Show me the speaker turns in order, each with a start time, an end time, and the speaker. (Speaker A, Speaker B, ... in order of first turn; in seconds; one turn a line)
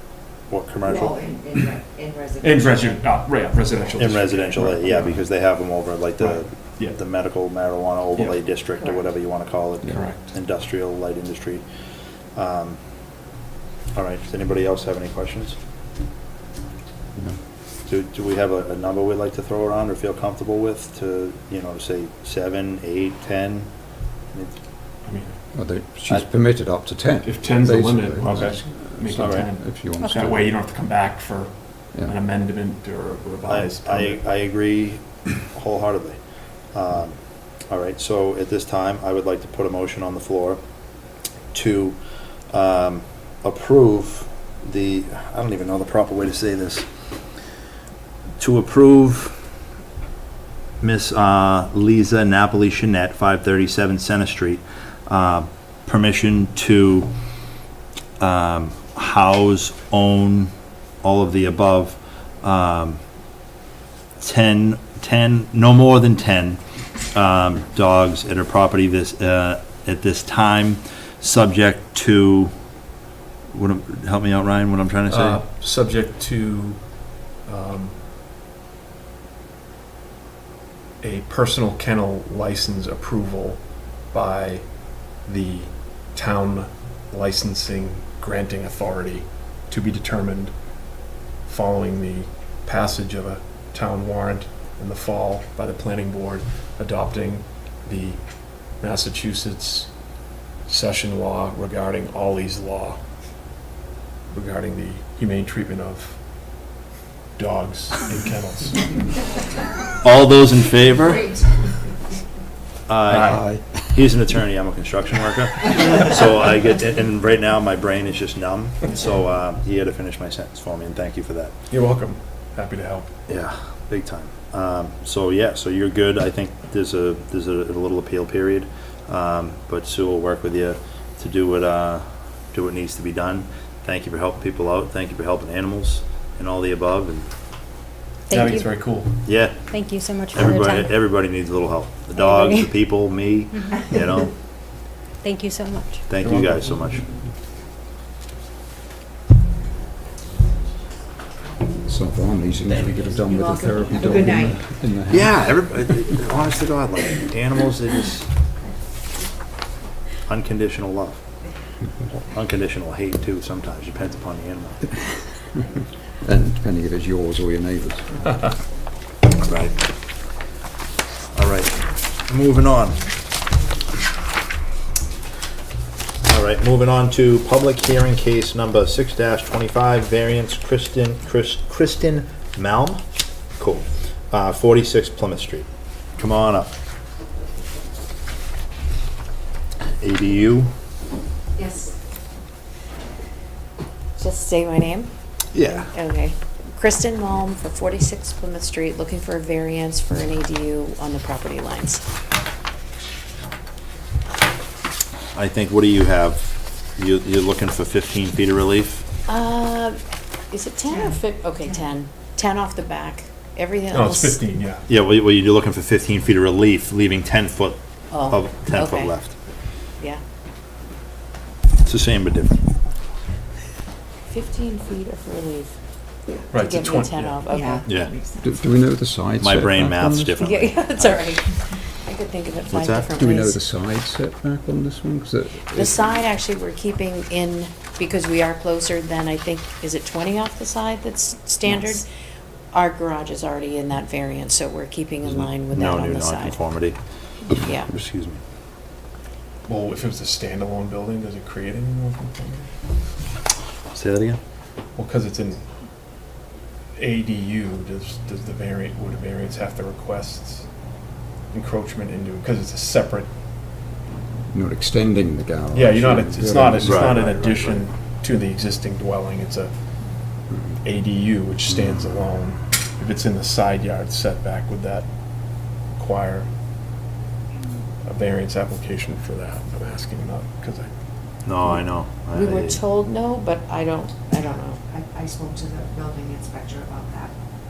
Speaker A: 0.5-1.2
Speaker B: 0.8-3.0
Speaker C: 2.4-5.2
Speaker A: 4.0-11.6
Speaker C: 6.2-7.0
Speaker C: 8.1-8.4
Speaker C: 9.9-10.2
Speaker A: 12.3-12.8
Speaker A: 13.9-15.6
Speaker A: 17.9-23.7
Speaker C: 25.0-25.4
Speaker D: 25.5-30.5
Speaker C: 27.2-34.2
Speaker A: 29.2-29.5
Speaker E: 30.0-30.4
Speaker A: 33.5-36.2
Speaker A: 36.7-37.2
Speaker A: 37.7-40.6
Speaker A: 41.5-42.0
Speaker A: 42.5-46.9
Speaker A: 48.4-49.3
Speaker A: 50.8-57.1
Speaker A: 58.2-60.5
Speaker A: 61.0-63.0
Speaker A: 64.2-66.6
Speaker A: 67.1-72.5
Speaker A: 73.5-75.4
Speaker C: 75.1-78.0
Speaker C: 81.0-90.5
Speaker C: 91.4-99.9
Speaker C: 100.7-103.0
Speaker C: 104.3-106.2
Speaker C: 107.4-109.0
Speaker A: 110.0-111.5
Speaker A: 112.9-121.5
Speaker C: 113.1-113.5
Speaker D: 113.3-113.9
Speaker C: 121.7-123.1
Speaker A: 123.3-137.3
Speaker E: 138.3-138.9
Speaker C: 138.3-139.2
Speaker A: 139.2-139.7
Speaker E: 139.7-140.9
Speaker A: 140.3-144.3
Speaker E: 142.1-142.8
Speaker E: 145.2-146.2
Speaker A: 146.1-147.1
Speaker C: 146.2-146.7
Speaker D: 151.8-155.6
Speaker B: 153.2-154.6
Speaker A: 155.1-158.3
Speaker A: 160.2-161.2
Speaker A: 162.1-164.8
Speaker D: 166.2-168.2
Speaker A: 169.4-169.8
Speaker A: 171.3-173.0
Speaker A: 176.2-183.0
Speaker A: 183.6-185.7
Speaker A: 186.2-186.7
Speaker A: 190.0-190.7
Speaker B: 191.6-191.9
Speaker F: 194.2-202.0
Speaker A: 195.5-195.9
Speaker A: 205.3-209.1
Speaker F: 209.3-210.0
Speaker F: 210.5-214.4
Speaker C: 213.9-214.9
Speaker A: 214.9-219.3
Speaker F: 218.1-219.2
Speaker A: 221.8-222.6
Speaker F: 224.3-225.7
Speaker C: 226.5-227.4
Speaker F: 226.5-227.8
Speaker B: 227.5-228.5
Speaker A: 227.8-228.1
Speaker D: 228.4-230.4
Speaker A: 229.4-231.1
Speaker F: 230.4-233.6
Speaker A: 232.7-233.1
Speaker D: 233.2-236.2
Speaker F: 235.7-242.1
Speaker F: 242.7-246.6
Speaker A: 245.2-247.0
Speaker A: 247.5-248.4
Speaker F: 247.6-247.9
Speaker C: 249.7-252.7
Speaker A: 253.9-254.4
Speaker C: 254.9-255.6
Speaker C: 256.9-260.7
Speaker C: 261.5-263.3
Speaker D: 264.5-267.3
Speaker C: 265.7-269.7
Speaker A: 266.8-267.8
Speaker C: 270.8-275.1
Speaker C: 275.9-276.5
Speaker C: 278.0-280.9
Speaker A: 281.4-282.8
Speaker F: 282.3-284.8
Speaker B: 284.9-287.3